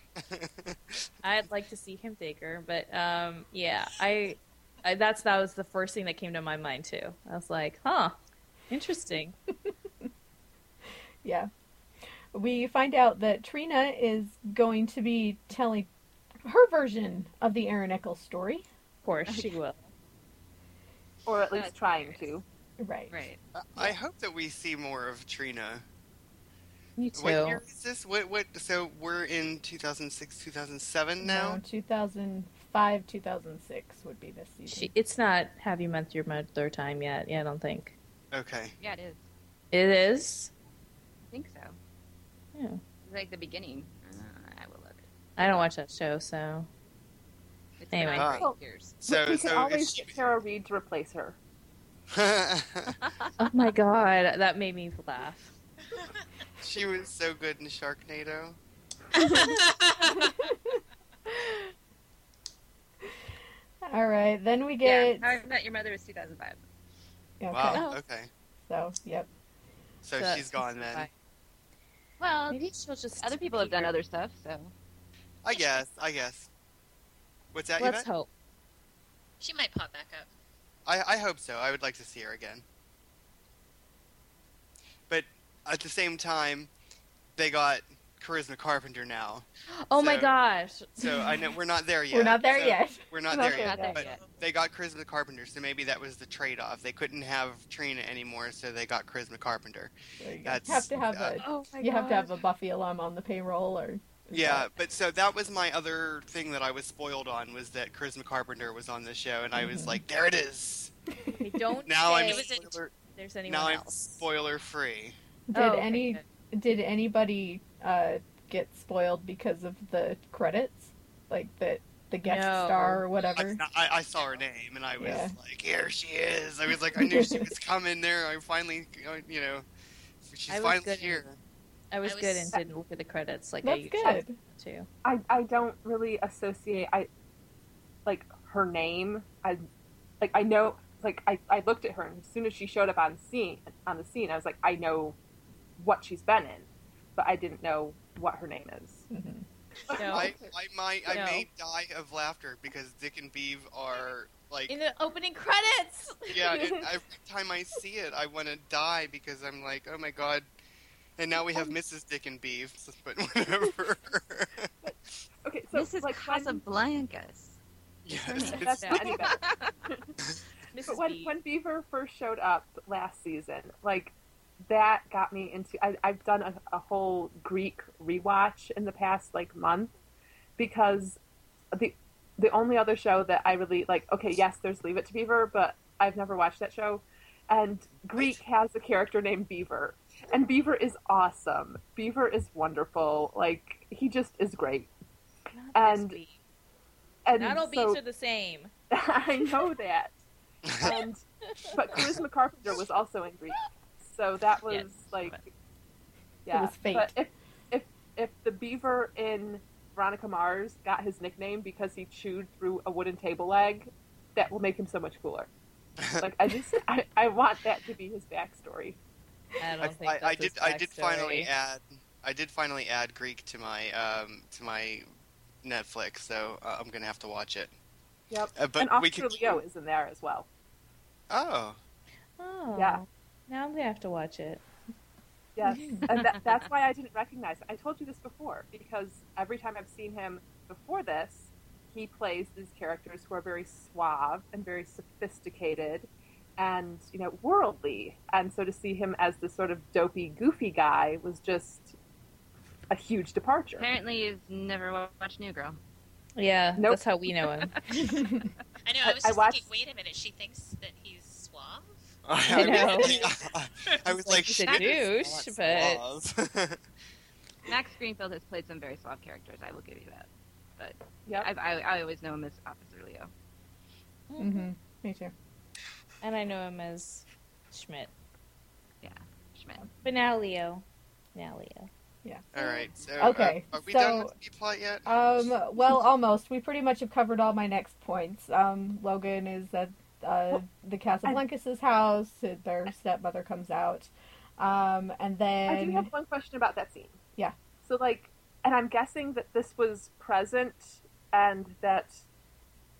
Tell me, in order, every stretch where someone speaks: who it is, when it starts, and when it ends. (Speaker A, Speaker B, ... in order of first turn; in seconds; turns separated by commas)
Speaker A: 0.2-1.0, Speaker B: 1.2-8.2, Speaker B: 8.7-9.3, Speaker C: 11.2-11.5, Speaker C: 12.3-15.9, Speaker C: 16.4-18.7, Speaker B: 19.0-19.9, Speaker D: 21.3-22.4, Speaker E: 21.5-22.3, Speaker C: 22.8-23.2, Speaker E: 23.1-23.4, Speaker A: 23.6-25.8, Speaker B: 27.0-27.6, Speaker A: 27.1-31.6, Speaker C: 31.2-34.9, Speaker B: 34.7-38.0, Speaker A: 38.3-38.7, Speaker E: 38.8-39.2, Speaker B: 39.7-40.5, Speaker E: 41.3-41.8, Speaker B: 42.5-42.8, Speaker E: 43.0-45.1, Speaker B: 45.4-46.7, Speaker E: 47.8-49.0, Speaker B: 47.9-48.4, Speaker A: 48.2-48.5, Speaker A: 49.0-50.1, Speaker D: 49.1-51.4, Speaker A: 52.1-53.0, Speaker B: 53.4-55.5, Speaker A: 56.6-58.6, Speaker F: 59.1-60.4, Speaker C: 63.8-65.3, Speaker E: 64.8-66.6, Speaker C: 67.4-67.8, Speaker A: 67.5-68.3, Speaker B: 67.7-68.0, Speaker C: 68.7-69.3, Speaker A: 70.0-71.1, Speaker B: 70.2-71.1, Speaker E: 72.2-74.7, Speaker B: 72.5-73.9, Speaker A: 75.4-76.5, Speaker A: 77.5-78.1, Speaker B: 77.8-78.3, Speaker F: 79.4-80.3, Speaker A: 80.9-82.6, Speaker A: 85.1-86.7, Speaker A: 87.4-90.4, Speaker B: 89.9-91.4, Speaker A: 91.0-99.9, Speaker C: 92.1-93.0, Speaker E: 93.3-94.2, Speaker C: 100.2-104.7, Speaker A: 100.4-101.4, Speaker B: 101.4-102.2, Speaker E: 101.5-102.2, Speaker A: 104.3-110.9, Speaker C: 109.5-110.0, Speaker B: 111.4-112.5, Speaker A: 111.9-112.9, Speaker F: 112.3-112.7, Speaker B: 113.2-114.3, Speaker A: 113.5-115.2, Speaker C: 115.5-123.6, Speaker B: 115.5-116.2, Speaker B: 122.2-123.0, Speaker A: 123.4-129.7, Speaker C: 125.0-125.3, Speaker C: 127.0-127.5, Speaker A: 130.2-131.4, Speaker B: 130.5-131.2, Speaker B: 131.9-134.9, Speaker F: 132.1-132.6, Speaker C: 133.6-134.4, Speaker D: 135.0-137.1, Speaker D: 138.1-139.6, Speaker D: 140.2-145.2, Speaker D: 145.8-149.1, Speaker C: 149.1-149.5, Speaker D: 149.9-150.4, Speaker B: 149.9-150.4, Speaker A: 150.1-154.7, Speaker B: 151.1-151.5, Speaker B: 154.7-156.7, Speaker A: 156.3-160.5, Speaker D: 156.6-156.8, Speaker A: 161.2-164.7, Speaker D: 164.8-166.6, Speaker E: 165.7-167.6, Speaker A: 168.1-169.0, Speaker E: 168.3-169.8, Speaker D: 168.5-169.4, Speaker B: 168.7-169.1, Speaker B: 170.7-171.3, Speaker D: 170.9-174.2, Speaker D: 174.7-179.9, Speaker D: 180.6-181.2, Speaker D: 181.7-194.9, Speaker B: 195.5-196.3, Speaker D: 195.8-196.2, Speaker D: 197.2-198.0, Speaker B: 197.3-198.7, Speaker D: 198.9-200.1, Speaker A: 200.7-200.9, Speaker D: 200.8-201.2, Speaker D: 201.7-205.4, Speaker B: 204.7-205.4, Speaker D: 206.5-215.5, Speaker C: 206.5-207.1, Speaker A: 216.0-216.3, Speaker D: 216.2-219.0, Speaker B: 219.6-221.5, Speaker A: 219.8-225.1, Speaker A: 225.6-227.7, Speaker D: 228.3-230.5, Speaker A: 228.6-229.6, Speaker A: 231.3-231.8, Speaker B: 232.4-234.6, Speaker D: 232.8-233.0, Speaker D: 235.6-251.9, Speaker B: 235.7-236.1, Speaker D: 252.9-253.9, Speaker E: 253.8-255.8, Speaker B: 256.4-257.7, Speaker D: 256.8-257.0, Speaker E: 257.7-258.2, Speaker C: 258.0-258.5, Speaker F: 258.9-263.3, Speaker D: 259.0-259.7, Speaker A: 262.3-266.8, Speaker B: 262.5-263.2, Speaker B: 264.1-266.0, Speaker E: 264.6-265.6, Speaker E: 267.7-273.3, Speaker B: 274.3-274.7, Speaker C: 274.4-275.3, Speaker B: 276.2-278.1, Speaker E: 279.0-279.9, Speaker B: 280.0-280.8, Speaker B: 281.4-281.9, Speaker C: 282.2-282.5, Speaker A: 282.5-285.6, Speaker C: 283.2-284.3, Speaker C: 285.1-296.1, Speaker D: 295.7-297.2, Speaker D: 297.8-302.2